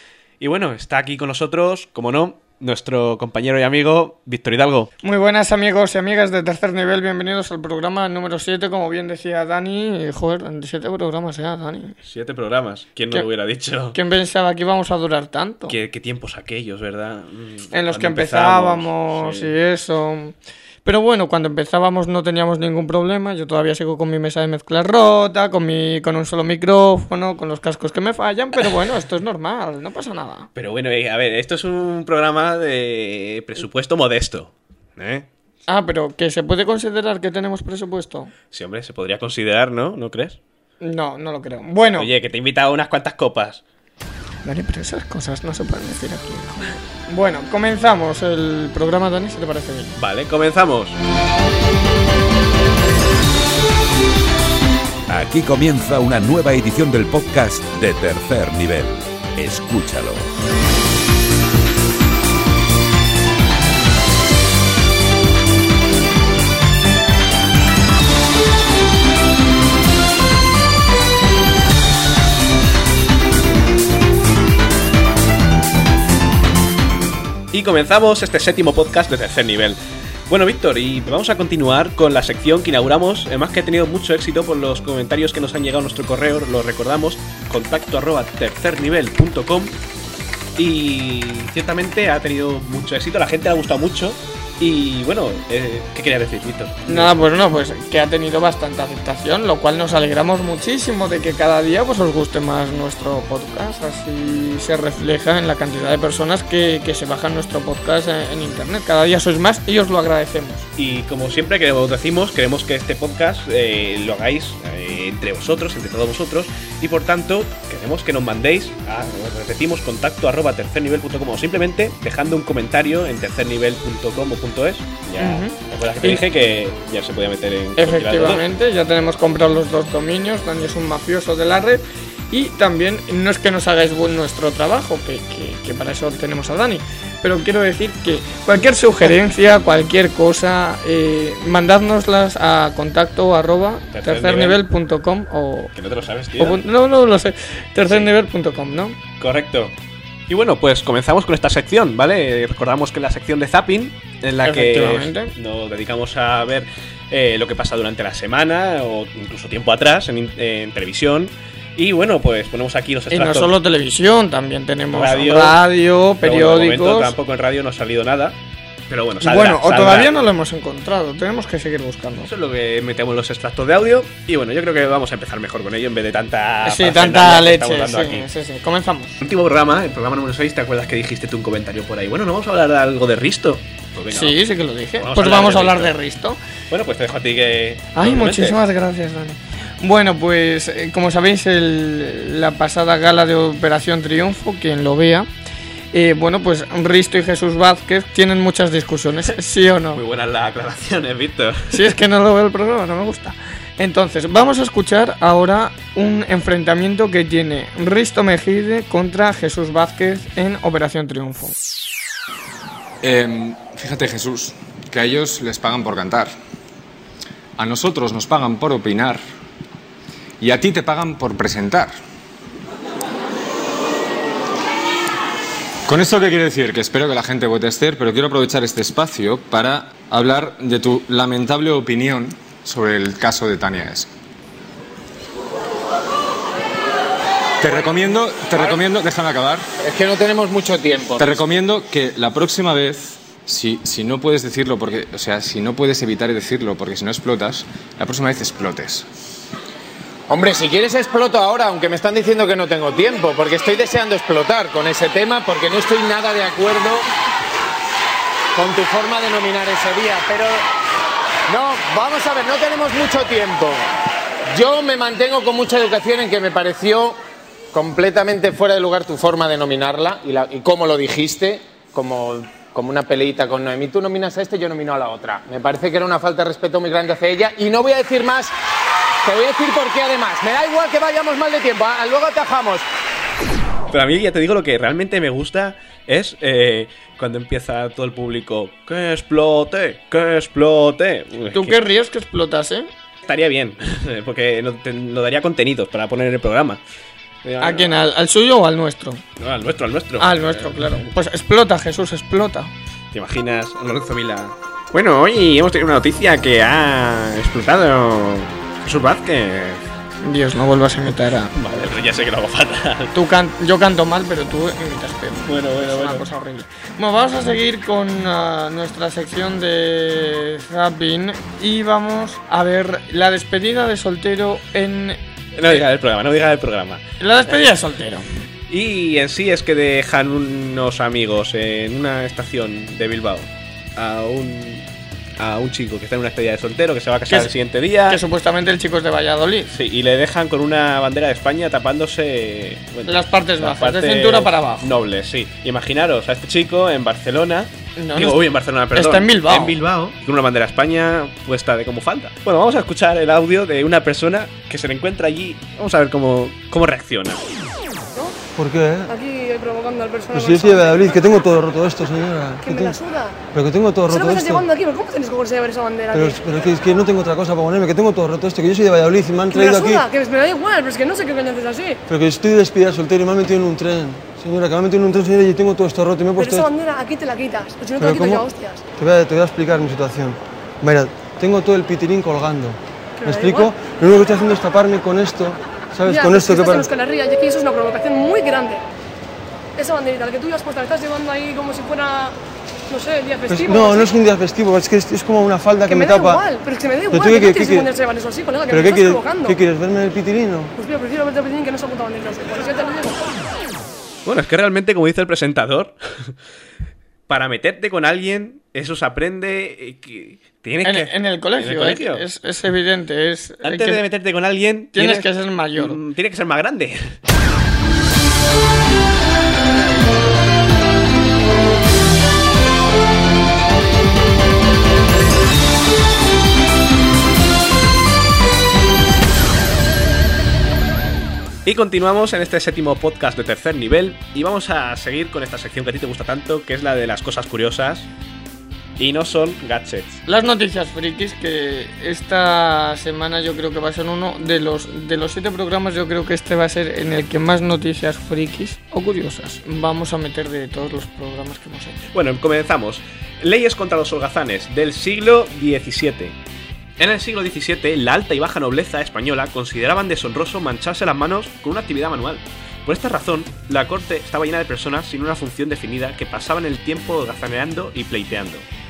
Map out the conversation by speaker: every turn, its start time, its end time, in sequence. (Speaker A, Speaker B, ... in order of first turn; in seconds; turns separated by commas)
Speaker A: 0.4-4.9, Speaker B: 5.0-11.9, Speaker A: 12.0-14.0, Speaker B: 13.9-15.8, Speaker A: 15.7-19.5, Speaker B: 17.7-30.5, Speaker A: 30.6-35.3, Speaker B: 35.7-38.3, Speaker A: 38.5-40.4, Speaker B: 40.8-42.1, Speaker A: 41.9-43.6, Speaker B: 44.5-50.0, Speaker A: 50.0-51.0, Speaker C: 55.1-60.3, Speaker A: 77.5-89.8, Speaker A: 90.6-97.2, Speaker B: 96.9-110.7, Speaker A: 110.8-128.4, Speaker B: 125.2-126.2, Speaker B: 127.8-145.7, Speaker A: 143.9-144.6, Speaker A: 145.8-146.6, Speaker B: 146.4-149.0, Speaker A: 149.2-149.7, Speaker A: 150.3-163.5, Speaker B: 154.4-155.3, Speaker B: 163.1-167.2, Speaker A: 164.9-165.6, Speaker A: 166.2-168.4, Speaker A: 168.9-170.2, Speaker B: 169.2-172.3, Speaker A: 172.2-178.3, Speaker B: 176.7-179.2, Speaker A: 179.2-184.4, Speaker B: 184.1-186.4, Speaker A: 185.0-185.9, Speaker A: 186.7-188.6, Speaker B: 187.9-195.3, Speaker B: 195.9-200.0, Speaker A: 199.9-202.0, Speaker B: 201.7-211.6, Speaker D: 213.0-216.3, Speaker D: 217.6-219.2, Speaker D: 220.4-221.9, Speaker D: 225.9-234.1, Speaker D: 237.6-239.7, Speaker E: 239.8-241.4, Speaker D: 241.2-249.1, Speaker E: 250.3-257.1, Speaker E: 258.6-260.6, Speaker E: 261.5-263.8, Speaker E: 264.5-267.2, Speaker E: 267.7-278.5, Speaker E: 279.2-282.8, Speaker A: 283.9-291.8, Speaker B: 291.5-292.9, Speaker A: 293.3-296.8, Speaker A: 297.4-298.0, Speaker B: 297.6-299.2, Speaker A: 299.4-301.1, Speaker B: 300.2-302.7, Speaker A: 303.1-309.8, Speaker B: 310.2-311.6, Speaker A: 311.5-313.2, Speaker B: 313.1-325.2, Speaker A: 315.5-316.3, Speaker A: 325.6-327.0, Speaker B: 327.2-328.2, Speaker A: 328.7-334.9, Speaker A: 335.4-338.2, Speaker B: 338.1-339.7, Speaker A: 339.7-357.4, Speaker B: 343.1-344.9, Speaker B: 348.0-349.7, Speaker F: 358.6-359.1, Speaker G: 359.2-361.1, Speaker F: 360.3-363.0, Speaker G: 362.7-363.4, Speaker F: 363.5-364.7, Speaker G: 364.1-366.4, Speaker F: 366.1-370.1, Speaker G: 369.5-372.0, Speaker F: 372.1-376.7, Speaker G: 376.4-378.8, Speaker F: 378.0-386.9, Speaker G: 383.2-383.7, Speaker G: 386.1-388.8, Speaker G: 389.8-392.4, Speaker G: 392.9-394.1, Speaker F: 393.5-396.5, Speaker G: 395.9-399.6, Speaker F: 397.1-397.9, Speaker F: 398.7-400.7, Speaker G: 400.8-403.2, Speaker A: 404.2-406.3, Speaker A: 407.3-412.2, Speaker B: 410.9-414.0, Speaker A: 413.6-417.1, Speaker B: 414.9-416.0, Speaker A: 431.6-438.1, Speaker A: 439.0-440.2, Speaker B: 440.3-452.0, Speaker A: 452.1-456.4, Speaker A: 457.0-468.7